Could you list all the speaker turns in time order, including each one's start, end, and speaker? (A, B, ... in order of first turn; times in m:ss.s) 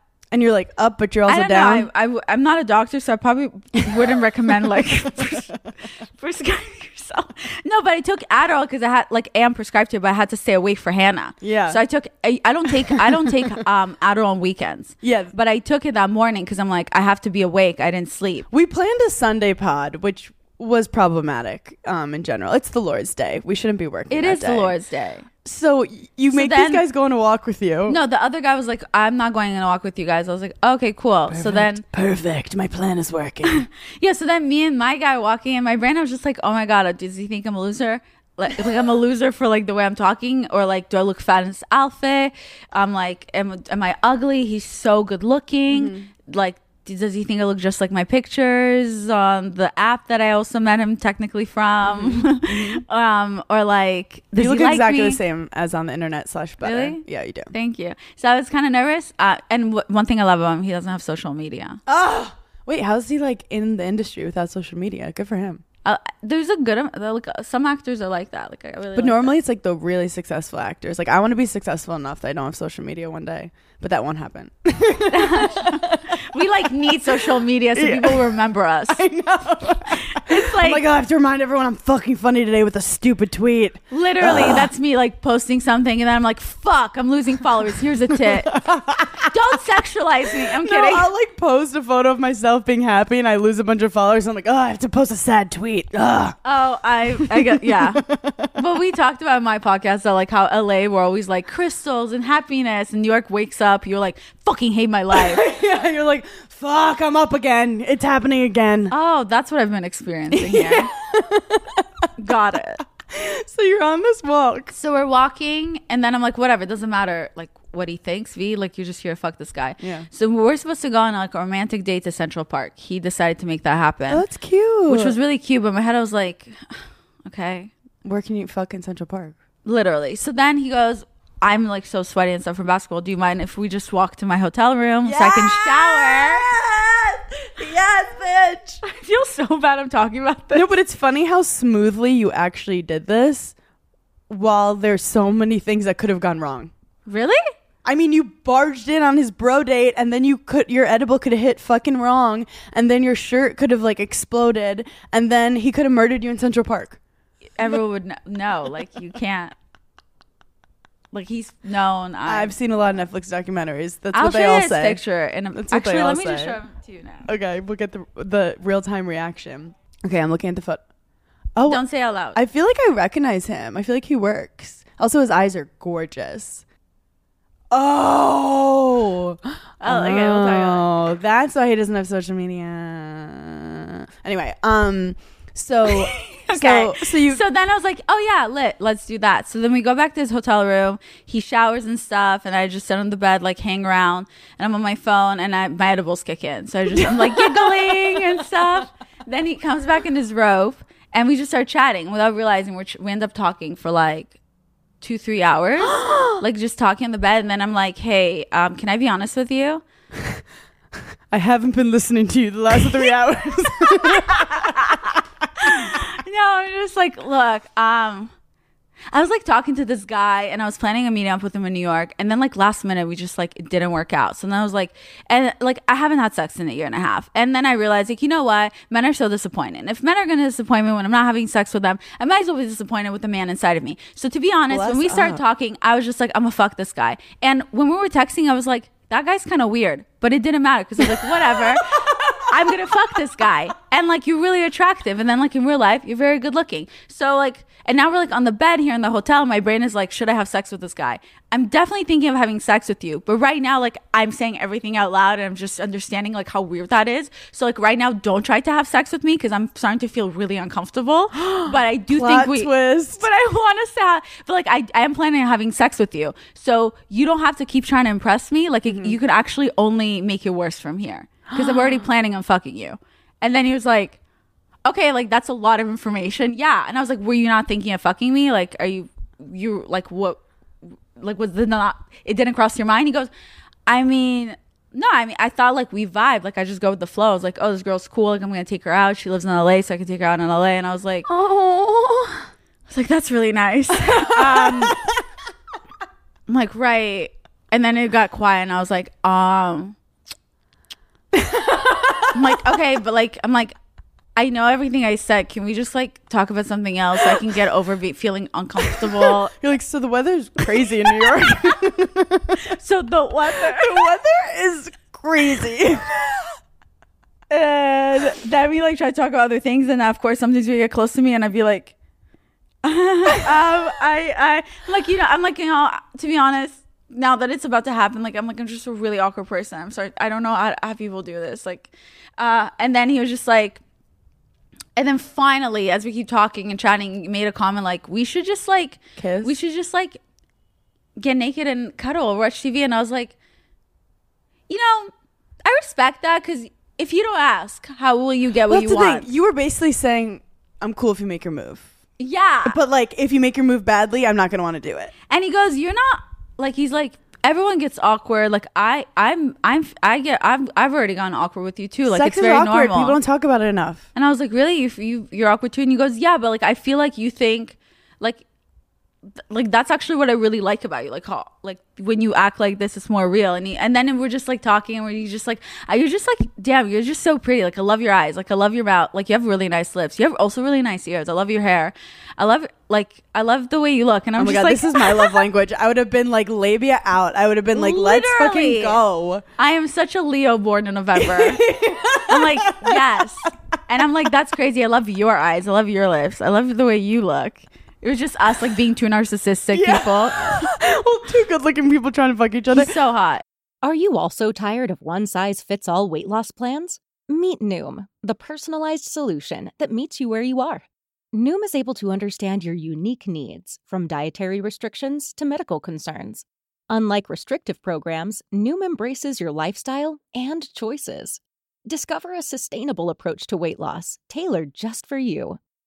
0:00.3-0:01.9 A
0:01.3-0:18.5 B
0:11.4-0:11.8 A
0:13.0-0:13.6 A
0:15.0-0:15.3 A
0:18.5-0:24.8 A
0:24.1-0:25.3 B
0:25.4-0:28.0 A
0:26.3-0:26.8 B
0:27.9-0:31.8 B
0:31.3-0:33.6 A
0:33.4-0:55.2 B
0:45.7-0:46.1 A
0:51.8-0:52.8 A
0:54.4-0:57.5 A
0:56.6-1:01.8 B
1:01.9-1:05.6 A
1:05.8-1:09.3 B
1:09.0-1:18.4 A
1:15.1-1:19.0 B
1:18.9-1:24.7 A
1:19.9-1:20.8 B
1:23.9-1:28.6 B
1:28.2-1:29.3 A
1:29.3-1:31.1 B
1:30.4-1:36.4 A
1:36.4-1:38.0 B
1:37.2-1:38.5 A
1:38.5-1:45.4 B
1:45.1-1:48.9 A
1:48.9-1:50.9 B
1:50.4-1:52.1 A
1:52.2-1:52.8 B
1:53.1-1:54.7 A
1:54.7-2:04.2 B
1:59.8-2:00.1 A
2:04.1-2:05.2 A
2:04.9-2:07.7 B
2:08.0-2:09.4 A
2:09.6-2:16.5 B
2:15.0-2:18.8 A
2:18.8-2:20.7 B
2:20.5-2:23.6 A
2:24.3-2:26.7 A
2:27.1-2:27.4 B
2:27.8-2:37.0 A
2:37.6-2:39.6 B
2:41.1-2:42.5 B
2:42.2-2:45.0 A
2:44.1-2:47.3 B
2:45.5-2:46.6 A
2:47.2-2:50.8 A
2:51.6-2:56.6 A
2:51.7-2:52.4 B
2:57.7-3:07.4 A
2:59.8-3:00.9 B
3:05.9-3:24.4 B
3:17.0-3:18.4 A
3:25.0-3:29.8 B
3:25.8-3:26.4 A
3:31.3-3:35.9 A
3:34.0-3:35.0 B
3:35.6-3:38.3 B
3:39.1-4:34.2 B
3:54.7-3:55.4 A
4:01.3-4:01.6 A
4:21.4-4:23.2 A
4:28.9-4:29.2 A
4:31.5-4:32.1 A
4:34.8-4:43.3 B
4:43.9-4:51.3 B
4:51.3-4:52.5 A
4:52.9-4:55.0 B
4:54.1-4:55.2 A
4:56.5-5:00.0 B
5:01.3-5:02.4 A
5:02.3-5:03.8 B
5:04.4-5:09.5 B
5:08.9-5:12.7 A
5:12.7-5:14.1 B
5:13.5-5:16.2 A
5:17.5-5:21.9 B
5:22.8-5:33.8 B
5:35.0-5:40.2 B
5:39.2-5:39.5 A
5:41.2-5:43.4 B
5:44.7-5:45.1 B
5:45.6-5:49.3 B
5:48.7-5:51.9 A
5:52.2-5:52.8 B
5:52.6-5:55.1 A
5:55.3-6:03.2 B
6:02.1-6:04.1 A
6:04.2-6:08.4 B
6:09.5-6:25.4 B
6:24.4-6:29.4 A
6:27.7-6:29.0 B
6:29.6-6:31.7 B
6:31.2-6:33.3 A
6:32.3-6:40.7 B
6:39.7-6:42.9 A
6:42.7-6:43.4 B
6:43.8-7:05.6 C